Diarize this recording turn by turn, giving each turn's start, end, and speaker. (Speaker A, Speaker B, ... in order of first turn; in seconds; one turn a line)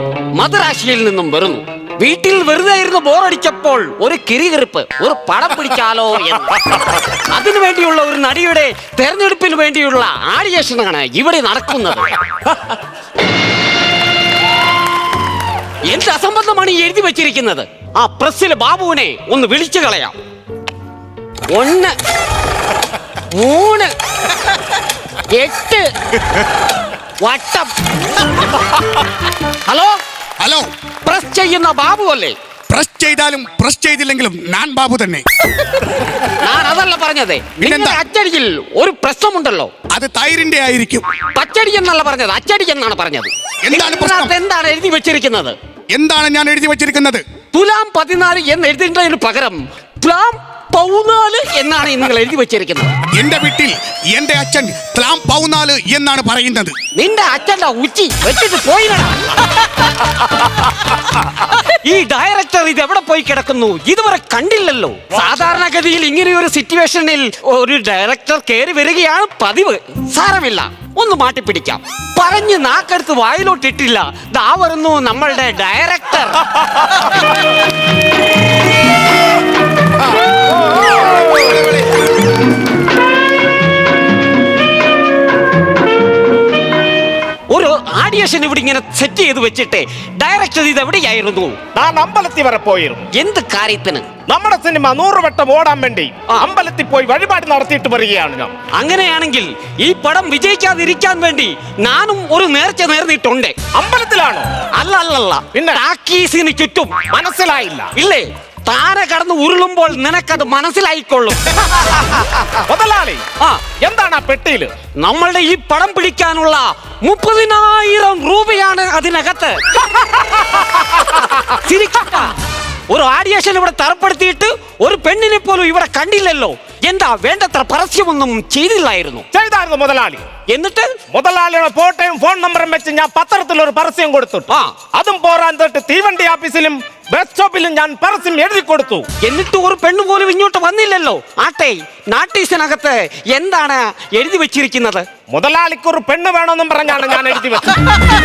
Speaker A: 0.3-12.2
Speaker A: 15.9-20.1
Speaker A: 21.5-21.9
Speaker A: 23.3-23.9
Speaker A: 25.3-25.9
Speaker A: 27.2-27.7
Speaker A: 29.6-30.0
Speaker B: 30.4-30.7
Speaker A: 31.0-32.3
Speaker B: 32.7-35.2
Speaker A: 36.0-39.7
Speaker B: 37.7-38.0
Speaker B: 39.9-41.0
Speaker A: 41.3-45.5
Speaker B: 43.6-44.3
Speaker B: 45.9-47.2
Speaker A: 47.5-52.9
Speaker B: 53.2-56.7
Speaker A: 56.9-59.1
Speaker A: 61.4-76.4
Speaker A: 87.5-91.6
Speaker C: 91.7-93.1
Speaker A: 93.1-94.1
Speaker C: 94.3-98.5
Speaker A: 98.7-103.5
Speaker C: 103.7-104.5
Speaker A: 104.8-106.9
Speaker C: 105.5-105.8
Speaker C: 107.1-107.9
Speaker A: 108.0-112.2
Speaker C: 112.6-113.2
Speaker C: 113.8-114.7
Speaker A: 115.0-119.5
Speaker A: 121.0-122.3
Speaker A: 122.9-129.2
Speaker C: 129.3-130.2
Speaker A: 130.5-130.9
Speaker C: 131.1-139.1
Speaker A: 134.5-134.7
Speaker A: 139.2-145.1
Speaker C: 145.3-147.7